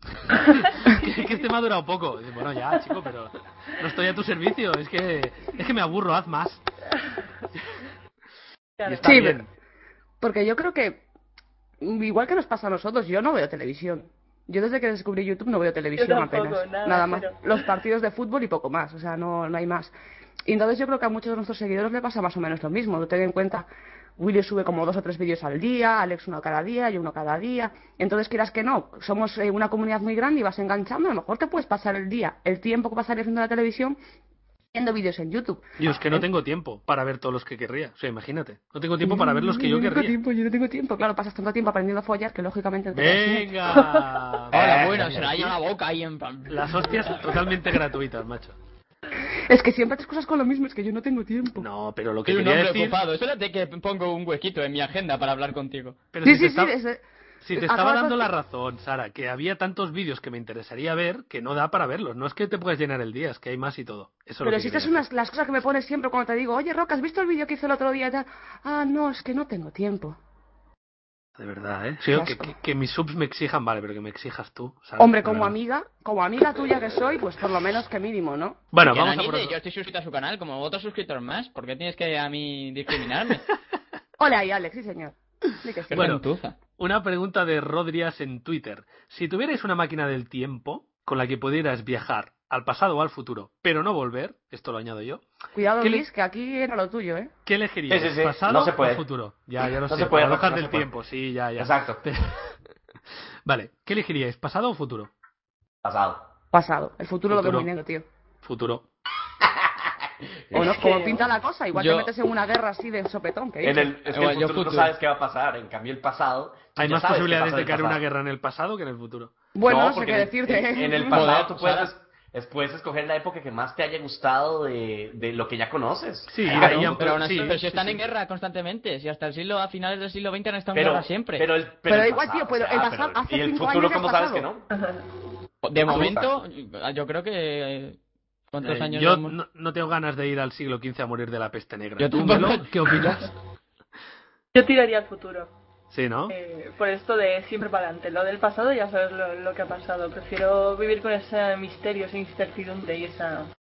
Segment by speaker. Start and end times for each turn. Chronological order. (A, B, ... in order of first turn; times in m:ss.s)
0:00.3-0:06.6 A
0:06.9-0:07.4 B
0:08.8-0:09.1 B
0:08.9-0:09.5 A
0:09.0-0:09.4 C
0:10.2-0:11.0 C
0:11.8-0:19.9 C
0:16.0-0:17.6 B
0:20.4-0:23.7 C
0:24.2-0:34.0 C
0:34.7-0:36.2 C
0:35.8-0:40.1 A
0:39.0-0:43.5 C
0:42.9-0:45.5 A
0:44.5-0:46.7 D
0:44.5-0:45.0 E
0:46.5-0:48.6 A
0:49.5-0:51.7 C
0:51.6-0:53.0 A
0:52.2-0:56.0 D
0:56.1-0:56.7 A
0:56.2-0:57.0 C
0:57.4-1:05.0 A
0:57.5-0:58.3 C
1:04.4-1:10.2 C
1:11.4-1:15.5 A
1:12.1-1:12.5 C
1:15.0-1:18.6 C
1:18.7-1:19.5 A
1:18.8-1:23.4 D
1:24.2-1:26.1 C
1:25.9-1:26.6 D
1:25.9-1:35.2 A
1:35.5-1:37.3 C
1:37.4-1:42.5 A
1:37.9-1:39.0 E
1:39.9-1:40.9 E
1:41.6-1:42.0 E
1:43.4-1:45.1 A
1:45.8-1:46.2 E
1:46.5-1:48.0 C
1:47.3-1:47.7 A
1:48.4-1:48.8 A
1:50.5-1:51.0 E
1:50.5-1:53.9 C
1:51.7-1:52.1 D
1:53.6-1:58.0 E
1:54.1-1:54.9 D
1:56.8-1:59.3 A
1:59.5-2:01.2 C
1:59.6-2:07.8 E
2:01.1-2:01.9 D
2:06.3-2:07.9 A
2:06.5-2:11.5 D
2:10.7-2:14.6 E
2:11.9-2:14.5 C
2:14.7-2:15.0 B
2:15.6-2:18.0 D
2:15.8-2:16.4 E
2:18.5-2:19.4 D
2:18.6-2:23.3 A
2:22.0-2:23.2 D
2:24.5-2:25.5 B
2:25.9-2:26.3 A
2:26.3-2:33.5 B